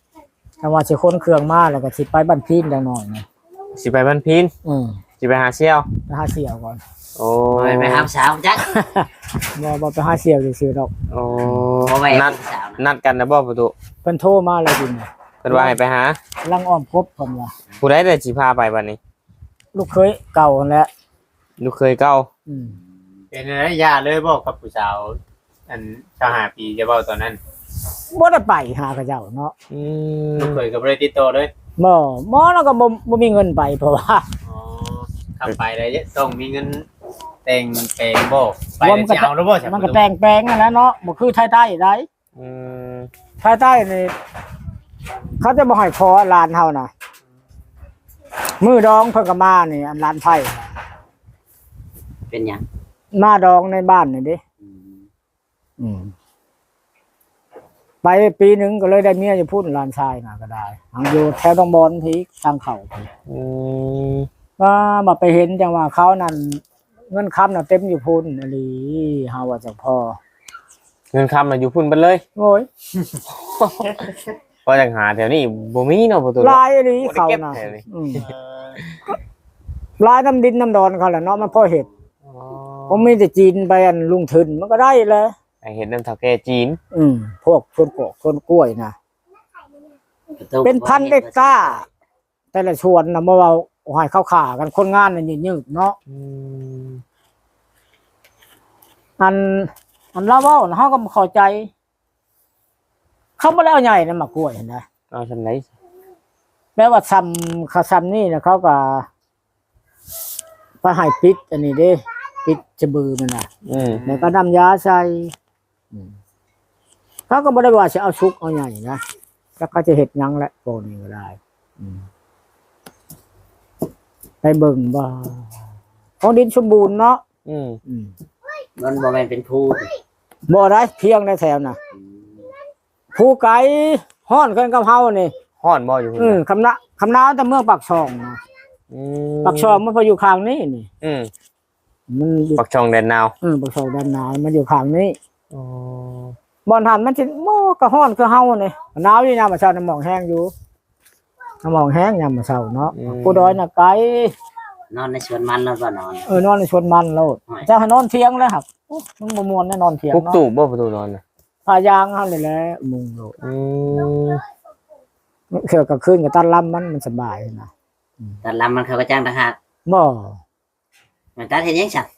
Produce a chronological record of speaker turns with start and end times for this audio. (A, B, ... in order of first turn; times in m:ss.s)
0:00.6-0:03.2 A
0:03.7-0:04.5 B
0:04.6-0:05.0 A
0:05.2-0:05.9 B
0:06.1-0:06.8 A
0:07.2-0:08.1 B
0:07.5-0:08.7 C
0:08.7-0:10.9 A
0:11.1-0:13.7 B
0:11.8-0:12.8 C
0:14.0-0:15.8 A
0:15.4-0:16.2 B
0:16.4-0:17.5 A
0:17.8-0:19.0 B
0:19.7-0:20.9 A
0:21.6-0:22.3 B
0:22.5-0:22.8 A
0:23.3-0:27.4 D
0:28.1-0:29.5 A
0:29.7-0:30.6 B
0:30.4-0:31.5 D
0:31.8-0:34.2 A
0:34.4-0:36.8 D
0:37.4-0:40.0 D
0:38.8-0:42.1 A
0:42.4-0:43.1 B
0:43.4-0:44.1 A
0:45.4-0:46.9 A
0:48.6-0:50.7 A
0:52.3-0:52.6 C
0:53.1-0:54.4 A
0:54.6-0:55.1 C
0:55.8-0:56.1 A
0:58.0-1:03.1 A
1:03.3-1:04.3 B
1:04.6-1:10.2 A
1:11.1-1:12.2 B
1:12.4-1:12.7 A
1:13.4-1:14.1 B
1:14.6-1:17.8 B
1:16.4-1:18.2 A
1:18.2-1:18.8 D
1:20.0-1:21.9 A
1:22.2-1:23.1 B
1:22.9-1:25.3 A
1:25.6-1:26.8 B
1:26.9-1:28.9 A
1:30.4-1:31.8 C
1:30.6-1:31.8 A
1:32.5-1:36.0 A
1:36.1-1:37.0 B
1:39.2-1:41.7 A
1:43.4-1:44.8 A
1:45.1-1:45.7 B
1:46.8-1:49.1 A
1:50.8-1:53.5 A
1:53.6-1:54.0 B
1:53.8-1:54.3 D
1:54.0-1:55.3 A
1:57.3-1:59.0 A
1:59.6-2:02.0 A
2:04.4-2:05.4 A
2:06.2-2:07.2 A
2:07.4-2:07.8 B
2:07.9-2:08.1 A
2:08.8-2:09.9 C
2:10.5-2:11.8 A
2:11.9-2:12.5 C
2:13.1-2:15.3 A
2:15.6-2:16.4 B
2:16.2-2:18.4 A
2:18.9-2:19.8 B
2:19.4-2:20.9 A
2:21.0-2:21.3 B
2:22.1-2:22.6 A
2:22.6-2:23.3 B
2:23.4-2:25.1 A
2:25.5-2:26.3 B
2:26.6-2:30.5 A
2:31.6-2:34.3 A
2:32.9-2:33.6 B
2:34.9-2:36.3 C
2:36.3-2:40.4 A
2:40.1-2:41.2 B
2:41.6-2:43.3 A
2:43.4-2:44.4 B
2:45.5-2:47.7 A
2:48.4-2:49.6 C
2:49.9-2:50.4 A
2:51.4-2:52.1 C